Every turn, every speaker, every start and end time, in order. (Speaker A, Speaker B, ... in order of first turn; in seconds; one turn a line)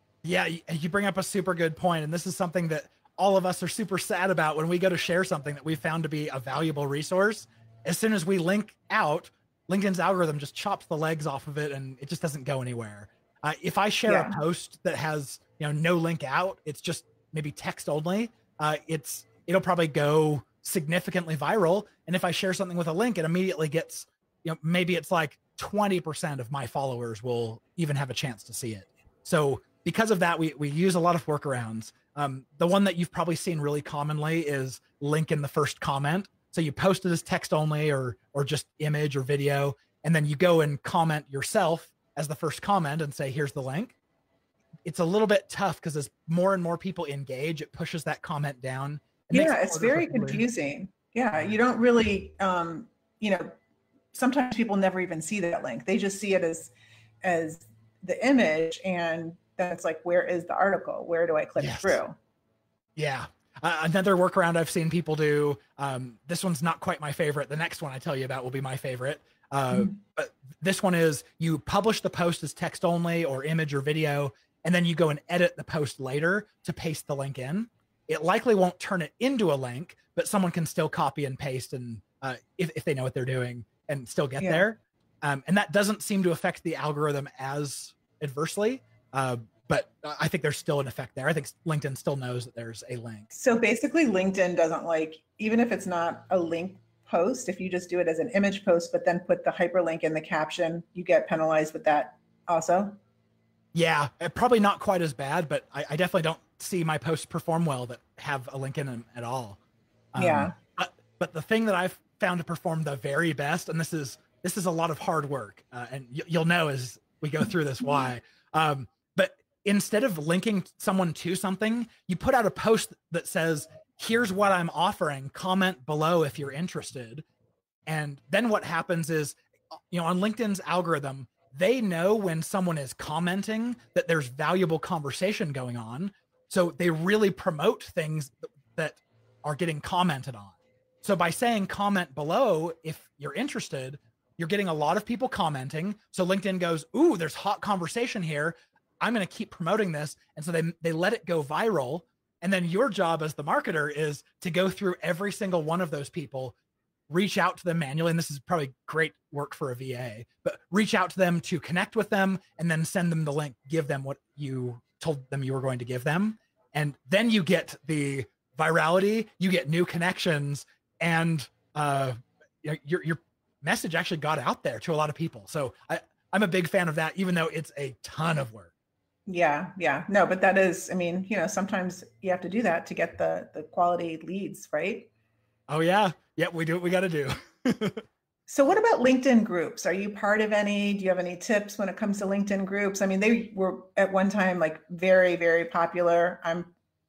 Speaker A: 0.2-44.0
Speaker B: 14.1-14.4
Speaker A: 44.8-50.4
Speaker B: 49.3-53.5
Speaker B: 54.1-56.7
Speaker B: 57.2-62.1
Speaker A: 61.6-62.0
Speaker A: 63.0-93.3
Speaker B: 84.4-84.6
Speaker B: 93.3-103.0
Speaker A: 103.7-109.6
Speaker A: 110.1-127.2
Speaker B: 110.2-110.5
Speaker A: 127.8-129.4
Speaker A: 129.9-156.5
Speaker A: 157.1-178.7
Speaker B: 179.3-185.1
Speaker A: 185.7-188.0
Speaker B: 188.5-196.7